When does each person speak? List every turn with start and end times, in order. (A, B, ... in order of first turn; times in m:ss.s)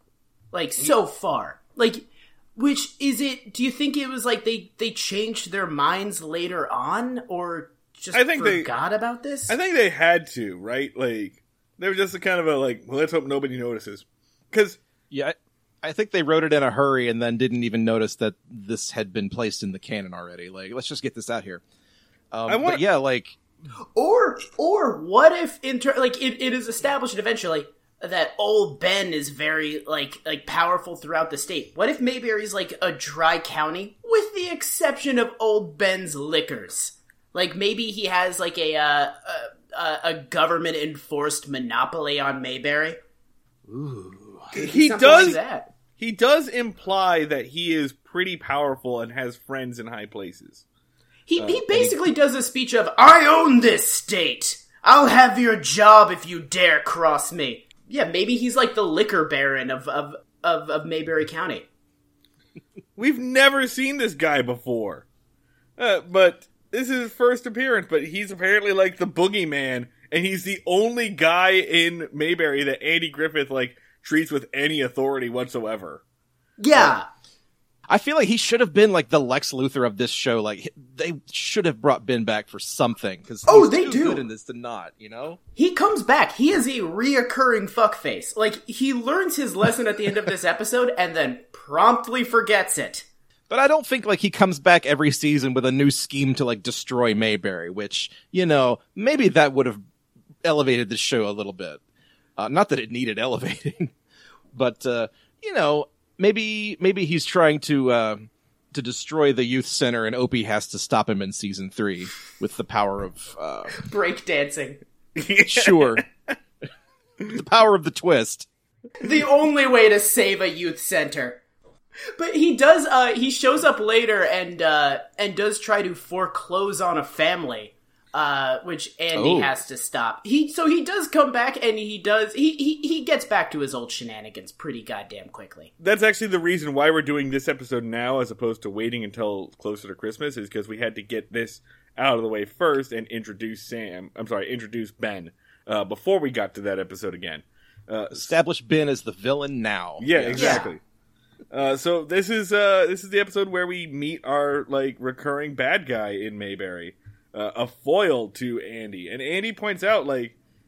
0:00.5-0:09.6 A
0:08.1-0:08.7 B
0:09.5-0:14.8 B
0:15.1-0:21.6 C
0:22.3-0:23.4 C
0:22.5-0:22.8 B
0:24.0-0:43.0 A
0:43.7-0:44.4 C
0:44.5-0:45.7 A
0:44.5-0:45.4 B
0:46.0-0:50.6 B
0:51.3-1:01.6 A
0:51.4-0:51.9 B
1:03.0-1:05.1 B
1:05.8-1:16.0 B
1:16.6-1:17.1 A
1:17.9-1:25.4 C
1:23.4-1:24.2 A
1:25.6-1:33.0 A
1:33.5-1:39.8 C
1:40.4-1:41.8 C
1:42.4-1:43.9 C
1:44.5-1:53.8 C
1:53.8-1:54.8 A
1:55.2-1:56.1 B
1:55.4-1:56.0 C
1:57.3-1:58.5 C
1:59.0-2:01.4 A
2:02.2-2:15.7 A
2:09.1-2:09.5 C
2:15.8-2:28.3 B
2:28.1-2:30.6 C
2:30.0-2:30.8 B
2:30.3-2:30.7 A
2:31.5-2:40.4 B